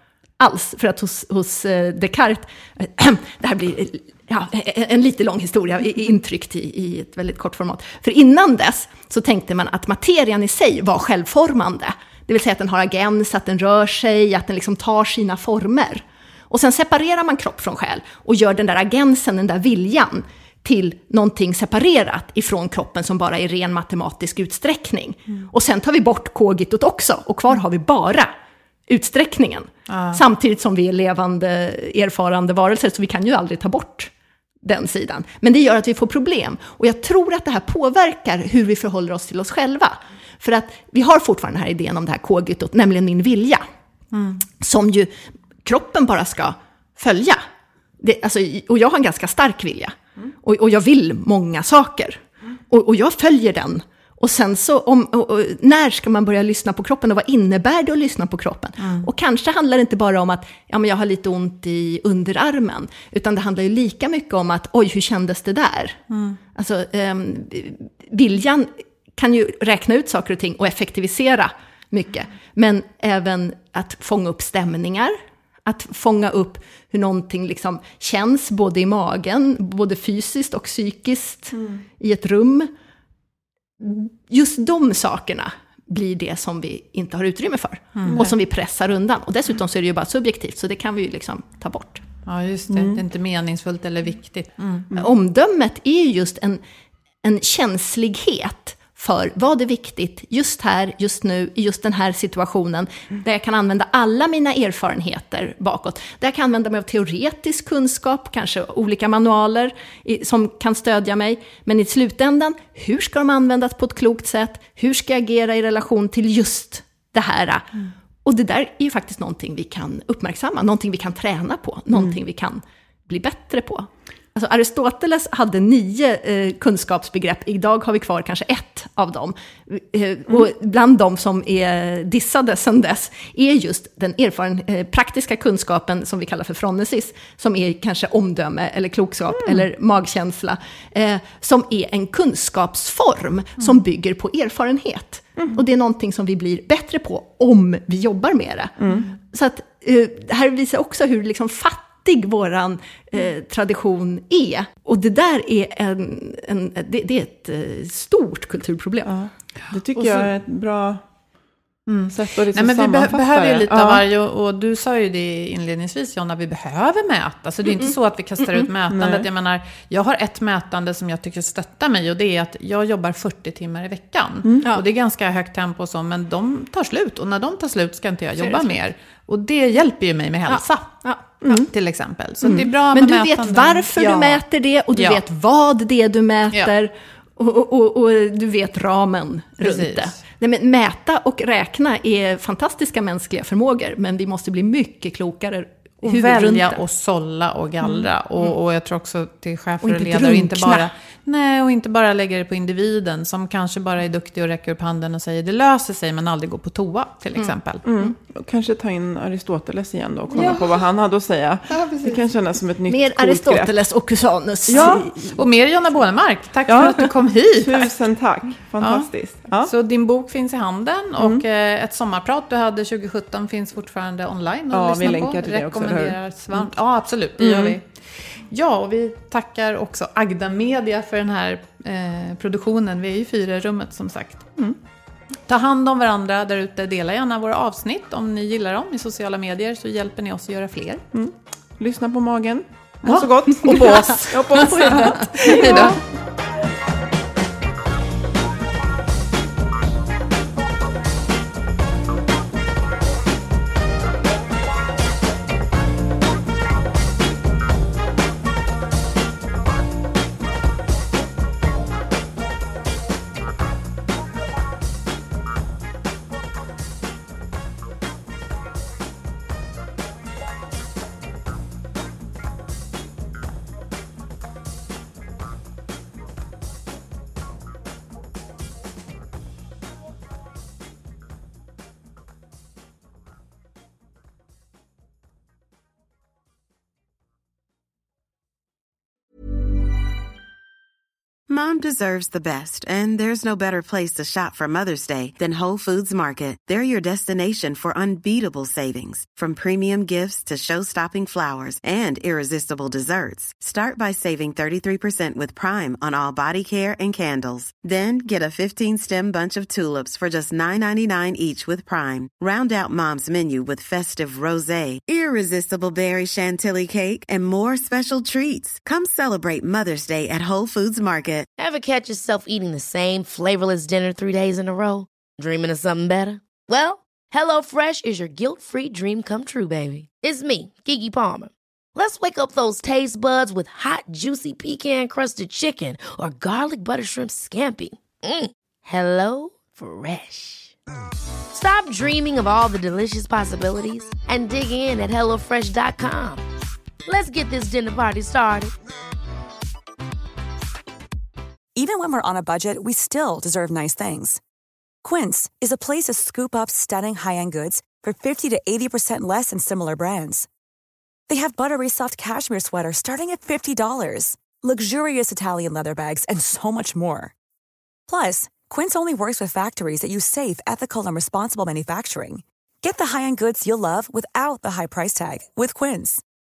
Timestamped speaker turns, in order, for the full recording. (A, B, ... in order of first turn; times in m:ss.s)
0:00.4-0:28.3 A
0:28.9-0:34.1 A
0:29.9-0:30.2 B
0:34.6-0:43.6 A
0:44.1-0:44.4 B
0:44.6-0:47.4 A
0:48.0-1:06.0 A
0:58.8-0:59.0 B
1:06.1-1:06.4 B
1:06.5-1:15.1 A
1:15.6-1:22.7 A
1:21.5-1:21.8 C
1:23.8-1:32.0 A
1:28.0-1:28.3 B
1:32.2-1:34.9 B
1:32.7-1:33.0 C
1:34.9-1:36.6 A
1:37.2-2:39.1 A
2:28.8-2:29.1 C
2:39.0-2:41.0 C
2:39.7-2:40.3 B
2:41.9-3:00.9 B
2:42.1-2:44.0 C
2:48.9-2:49.3 C
2:58.4-2:58.7 A
3:00.5-3:01.3 A
3:01.4-3:04.4 B
3:02.4-3:16.8 A
3:05.0-3:05.2 B
3:09.6-3:10.2 B
3:16.0-3:27.8 B
3:19.8-3:20.9 A
3:27.4-3:28.1 A
3:27.8-3:33.7 C
3:32.9-3:35.4 A
3:34.7-3:35.1 C
3:34.8-3:37.9 B
3:36.7-3:39.7 C
3:38.8-3:39.1 B
3:39.6-3:47.9 B
3:41.2-3:41.4 C
3:44.7-3:46.7 C
3:47.4-3:47.8 C
3:48.5-3:54.5 B
3:55.5-4:01.0 B
4:01.1-4:06.0 C
4:03.7-4:05.9 A
4:05.4-4:06.0 B
4:51.5-5:21.5 D
5:21.6-5:40.7 E
5:41.5-5:46.4 E
5:47.0-5:48.7 E
5:51.8-5:54.4 F
5:55.0-6:00.5 F
6:01.3-6:07.3 F
6:08.1-6:16.2 F